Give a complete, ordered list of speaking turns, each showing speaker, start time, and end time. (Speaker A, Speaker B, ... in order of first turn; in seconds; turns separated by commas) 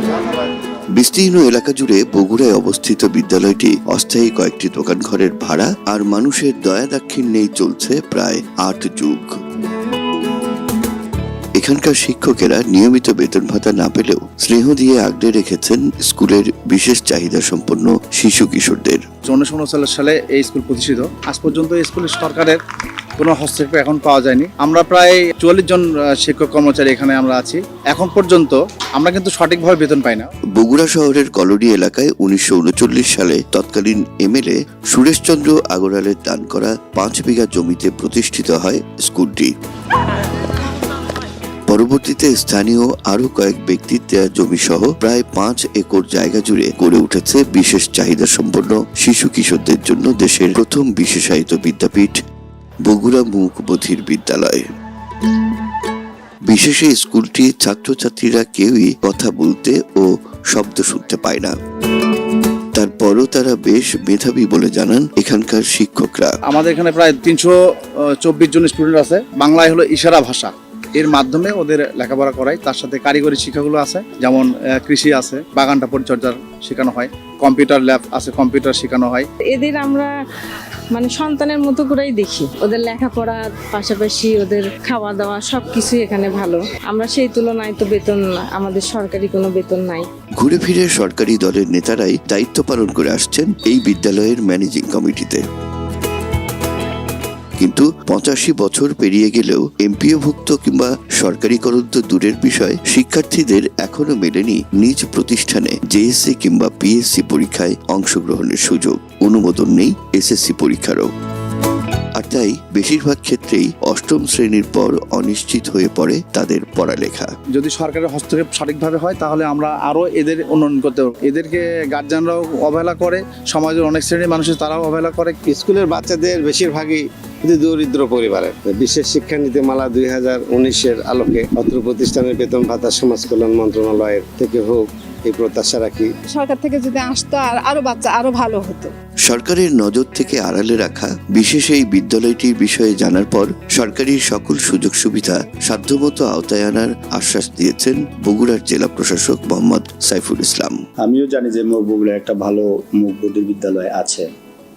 Speaker A: 1.0-9.3, Speaker A: 11.6-19.0, Speaker B: 19.3-22.6, Speaker B: 23.2-30.3, Speaker A: 30.6-39.5, Speaker A: 41.7-52.2, Speaker A: 52.9-54.7, Speaker A: 56.5-61.6, Speaker A: 62.8-66.3, Speaker B: 66.5-67.5, Speaker B: 68.2-79.3, Speaker C: 79.5-80.1, Speaker C: 80.9-90.1, Speaker A: 90.4-95.4, Speaker A: 97.6-111.1, Speaker A: 112.2-117.3, Speaker B: 117.5-125.4, Speaker D: 125.5-136.1, Speaker E: 136.3-138.9, Speaker A: 139.3-150.8, Speaker F: 151.0-154.3